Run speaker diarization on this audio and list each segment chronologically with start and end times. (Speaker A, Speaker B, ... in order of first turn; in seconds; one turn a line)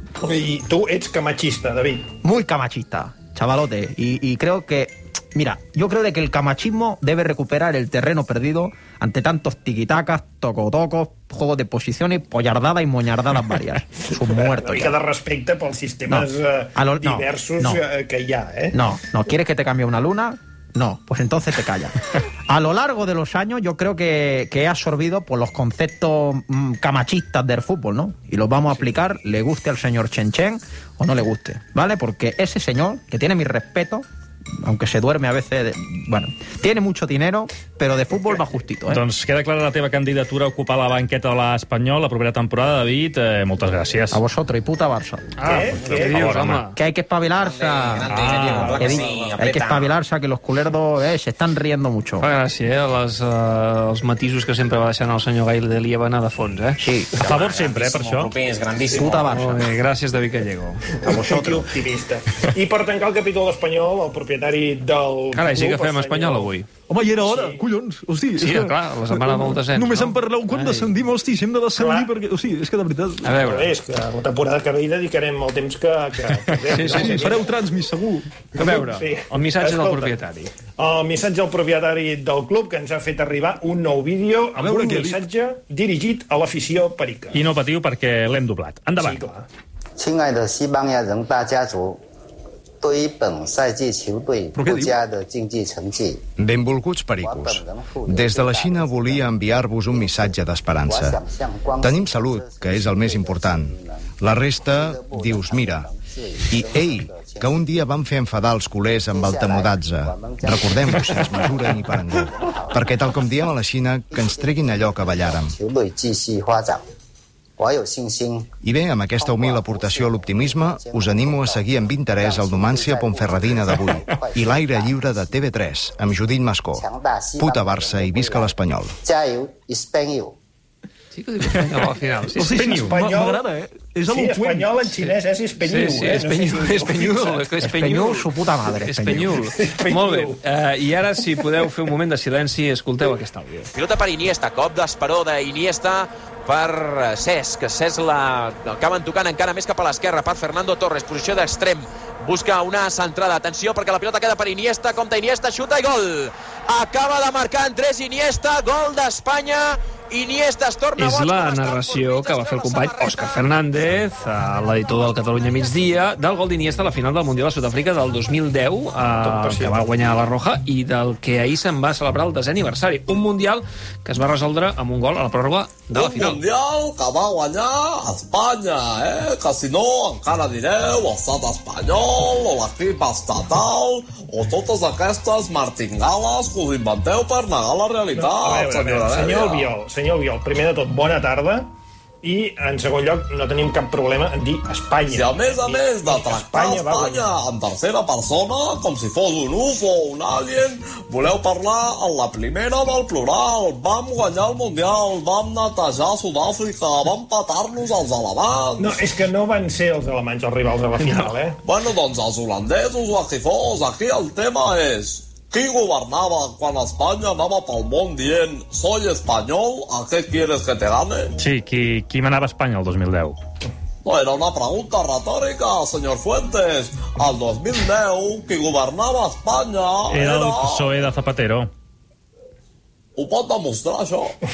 Speaker A: 0.2-2.1
Speaker B: 2.2-14.9
Speaker A: 14.1-18.8
Speaker B: 16.1-17.8
Speaker B: 18.7-34.0
Speaker B: 34.6-39.0
Speaker C: 38.9-44.2
Speaker B: 44.1-45.3
Speaker A: 45.4-46.2
Speaker D: 45.4-46.8
Speaker C: 45.5-46.6
Speaker B: 46.7-52.3
Speaker E: 47.4-49.9
Speaker C: 48.1-49.0
Speaker A: 48.6-48.8
Speaker D: 52.2-56.9
Speaker B: 56.8-57.2
Speaker E: 57.1-59.5
Speaker C: 57.2-58.3
Speaker B: 58.9-59.6
Speaker D: 59.2-60.9
Speaker A: 61.0-66.5
Speaker B: 61.0-61.7
Speaker D: 65.3-66.7
Speaker F: 66.9-73.4
Speaker A: 67.2-67.6
Speaker D: 68.4-70.9
Speaker A: 71.8-72.1
Speaker D: 73.2-73.7
Speaker A: 73.4-77.5
Speaker D: 76.7-77.4
Speaker F: 76.8-78.5
Speaker A: 78.5-80.2
Speaker D: 78.6-80.5
Speaker A: 80.8-87.4
Speaker F: 84.5-85.2
Speaker C: 87.3-89.2
Speaker A: 89.0-89.5
Speaker G: 90.0-92.0
Speaker G: 92.8-96.2
Speaker F: 94.5-95.0
Speaker H: 96.4-101.2
Speaker G: 97.2-107.7
Speaker H: 101.8-105.9
Speaker H: 106.5-115.5
Speaker G: 109.1-113.0
Speaker G: 114.1-116.8
Speaker G: 117.6-118.5
Speaker H: 118.6-126.8
Speaker G: 119.1-125.3
Speaker G: 126.7-130.3
Speaker H: 127.4-128.9
Speaker D: 131.1-132.9
Speaker F: 132.3-134.9
Speaker A: 132.7-133.4
Speaker A: 134.1-137.4
Speaker D: 135.6-143.7
Speaker B: 137.6-139.4
Speaker A: 139.5-140.4
Speaker I: 143.7-163.4
Speaker D: 161.0-176.4
Speaker A: 169.2-169.8
Speaker J: 175.9-189.7
Speaker A: 188.1-191.7
Speaker A: 192.2-197.3
Speaker J: 195.1-209.0
Speaker A: 208.8-211.6
Speaker J: 211.6-221.3
Speaker C: 221.4-223.4
Speaker J: 224.0-230.9
Speaker C: 230.1-231.7
Speaker J: 233.2-234.3